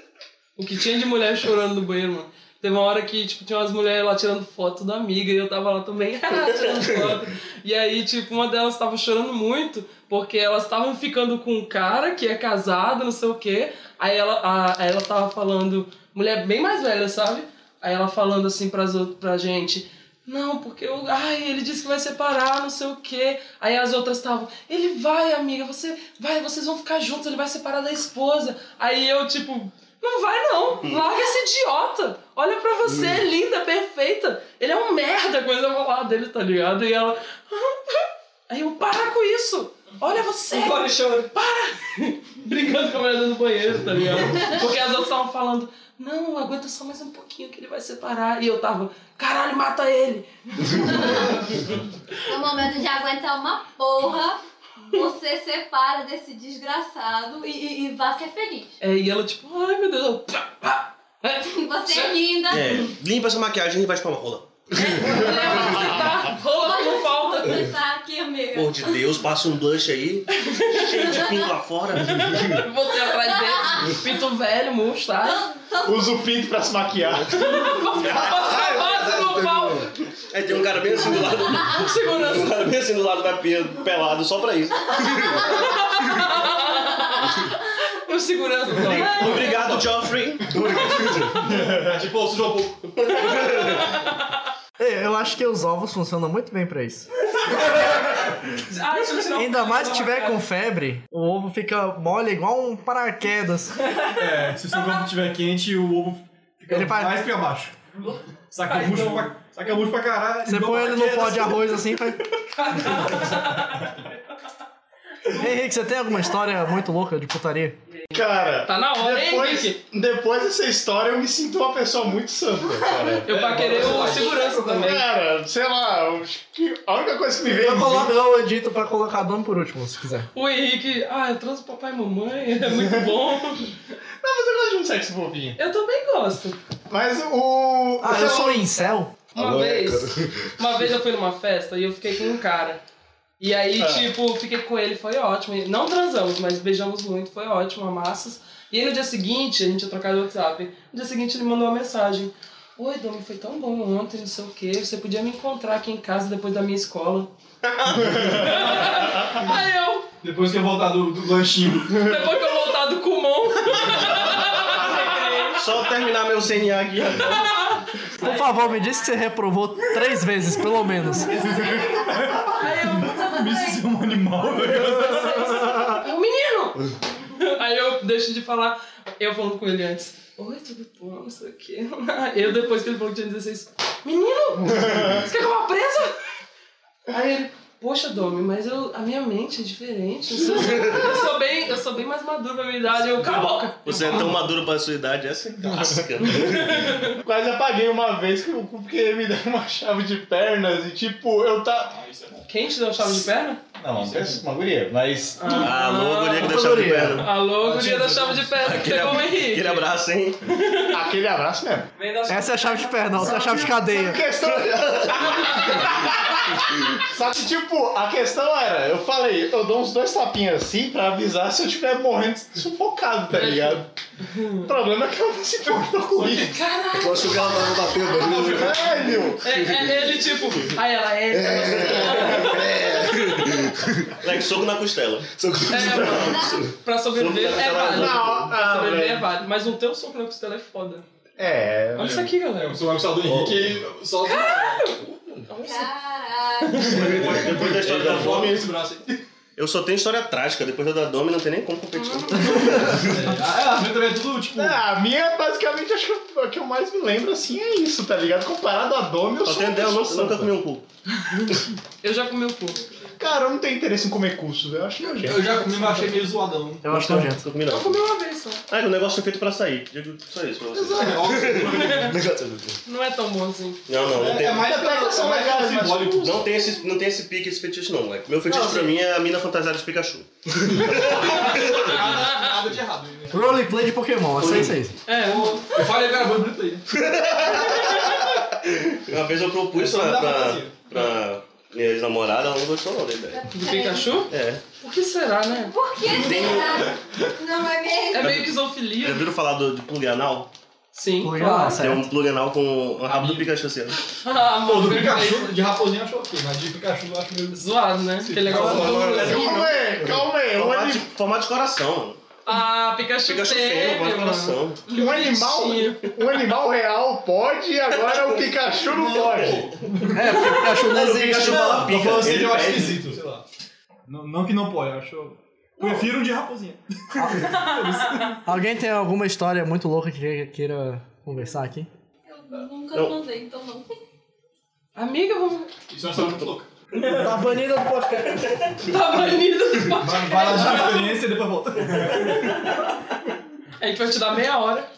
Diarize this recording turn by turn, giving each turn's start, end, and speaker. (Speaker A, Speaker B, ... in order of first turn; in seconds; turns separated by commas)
Speaker A: 0.6-51.4, Speaker B: 40.5-41.3, Speaker C: 52.3-54.4, Speaker C: 54.9-58.7, Speaker A: 58.8-62.2, Speaker C: 61.4-62.8, Speaker D: 62.5-64.5, Speaker A: 64.8-67.7, Speaker C: 65.2-69.0, Speaker D: 68.5-72.6, Speaker A: 70.3-71.2, Speaker A: 72.1-75.5, Speaker C: 73.2-74.0, Speaker C: 75.2-76.1, Speaker E: 75.8-77.4, Speaker A: 77.3-80.0, Speaker F: 78.1-79.8, Speaker D: 80.3-85.5, Speaker A: 81.6-82.6, Speaker A: 85.3-89.4, Speaker D: 88.8-90.8, Speaker G: 89.1-89.9, Speaker F: 90.5-91.5, Speaker G: 91.3-93.5, Speaker D: 93.0-93.8, Speaker H: 94.8-97.1, Speaker A: 98.7-100.3, Speaker B: 98.7-100.2, Speaker H: 99.3-103.8, Speaker G: 104.2-107.8, Speaker H: 106.7-107.3, Speaker G: 108.5-111.7, Speaker A: 108.6-109.3, Speaker H: 110.5-112.2, Speaker A: 112.6-113.8, Speaker G: 112.9-113.8, Speaker H: 115.3-117.8, Speaker A: 118.1-119.8, Speaker E: 118.1-124.1, Speaker A: 123.2-125.0, Speaker G: 123.3-124.9, Speaker E: 124.7-128.1, Speaker H: 127.5-130.3, Speaker G: 127.7-128.0, Speaker A: 130.3-133.7, Speaker E: 132.7-133.1, Speaker E: 134.2-135.6, Speaker A: 135.6-136.6, Speaker E: 136.9-138.7, Speaker H: 138.0-139.1, Speaker A: 139.3-142.8, Speaker F: 139.3-140.5, Speaker A: 143.4-157.3, Speaker E: 143.8-144.1, Speaker D: 157.6-158.6, Speaker G: 158.2-158.9, Speaker A: 158.3-160.1, Speaker G: 160.2-162.3, Speaker A: 161.9-165.6, Speaker B: 164.7-165.6, Speaker D: 165.6-167.7, Speaker H: 168.2-171.5, Speaker G: 171.3-175.9, Speaker A: 172.6-173.7, Speaker A: 175.0-176.8, Speaker A: 177.3-186.2, Speaker E: 184.8-185.2, Speaker A: 187.1-194.3, Speaker D: 193.8-197.0, Speaker G: 193.9-194.3, Speaker A: 196.3-197.1, Speaker E: 197.2-202.0, Speaker G: 201.9-202.4, Speaker A: 202.5-203.6, Speaker E: 203.8-205.6, Speaker G: 203.8-204.4, Speaker A: 205.4-206.5, Speaker D: 205.5-207.4, Speaker H: 206.4-207.3, Speaker A: 207.2-209.8, Speaker G: 207.5-208.8, Speaker D: 208.6-210.4, Speaker A: 210.5-210.9, Speaker E: 210.9-211.9, Speaker B: 212.0-213.0, Speaker H: 212.3-214.2, Speaker E: 213.1-223.9, Speaker F: 214.4-215.5, Speaker A: 223.3-224.7, Speaker E: 224.6-226.6, Speaker G: 226.1-226.6, Speaker A: 226.2-227.7, Speaker F: 226.9-230.1, Speaker G: 228.2-229.1, Speaker E: 228.3-229.5, Speaker A: 229.4-233.5, Speaker F: 231.3-234.2, Speaker D: 234.2-235.3, Speaker F: 235.3-236.7, Speaker A: 235.7-241.0, Speaker D: 237.1-238.5, Speaker E: 237.9-239.3, Speaker E: 241.4-242.3, Speaker A: 241.9-242.9, Speaker G: 242.0-244.9, Speaker D: 243.3-243.8, Speaker A: 244.2-245.9, Speaker F: 245.1-245.4, Speaker C: 245.6-247.3, Speaker G: 246.7-249.2, Speaker D: 246.8-248.7, Speaker D: 249.6-253.1, Speaker A: 251.9-252.8, Speaker G: 252.4-254.8, Speaker E: 254.5-260.5, Speaker D: 259.4-260.8, Speaker A: 261.3-262.8, Speaker E: 263.2-265.6, Speaker G: 265.2-267.3, Speaker H: 266.8-267.4, Speaker D: 267.1-268.0, Speaker A: 267.6-268.6, Speaker D: 268.7-271.8, Speaker G: 270.7-272.1, Speaker F: 271.3-272.8, Speaker A: 272.9-273.8, Speaker D: 273.9-274.7, Speaker G: 274.0-276.5, Speaker E: 274.5-276.4, Speaker D: 276.2-282.1, Speaker G: 280.8-283.6, Speaker A: 281.9-282.5, Speaker H: 283.3-284.9, Speaker D: 284.4-284.8, Speaker A: 285.1-285.6, Speaker G: 285.2-286.9, Speaker D: 287.3-288.1, Speaker D: 289.1-293.4, Speaker G: 289.7-291.0, Speaker C: 293.3-294.2, Speaker A: 293.5-295.7, Speaker D: 294.3-294.6, Speaker C: 295.6-298.3, Speaker D: 296.2-296.8, Speaker A: 298.1-299.2, Speaker D: 298.2-300.5, Speaker A: 300.9-301.8, Speaker H: 301.2-302.1, Speaker D: 301.8-304.0, Speaker G: 303.0-303.5, Speaker A: 304.2-305.6, Speaker G: 304.6-307.6, Speaker A: 307.5-309.6, Speaker G: 308.2-309.5, Speaker F: 308.5-309.4, Speaker E: 308.9-311.1, Speaker D: 310.5-312.2, Speaker A: 312.4-316.1, Speaker D: 313.2-314.8, Speaker E: 314.9-319.7, Speaker G: 318.8-320.6, Speaker H: 320.1-322.0, Speaker D: 320.3-323.1, Speaker G: 321.1-323.4, Speaker G: 324.1-328.4, Speaker H: 327.1-327.8, Speaker H: 328.4-331.9, Speaker C: 332.3-333.9, Speaker D: 332.9-333.2, Speaker A: 334.9-335.7, Speaker G: 335.9-336.7, Speaker B: 337.0-337.3, Speaker H: 337.0-338.5, Speaker A: 338.8-341.2, Speaker G: 339.9-342.6, Speaker A: 343.8-344.9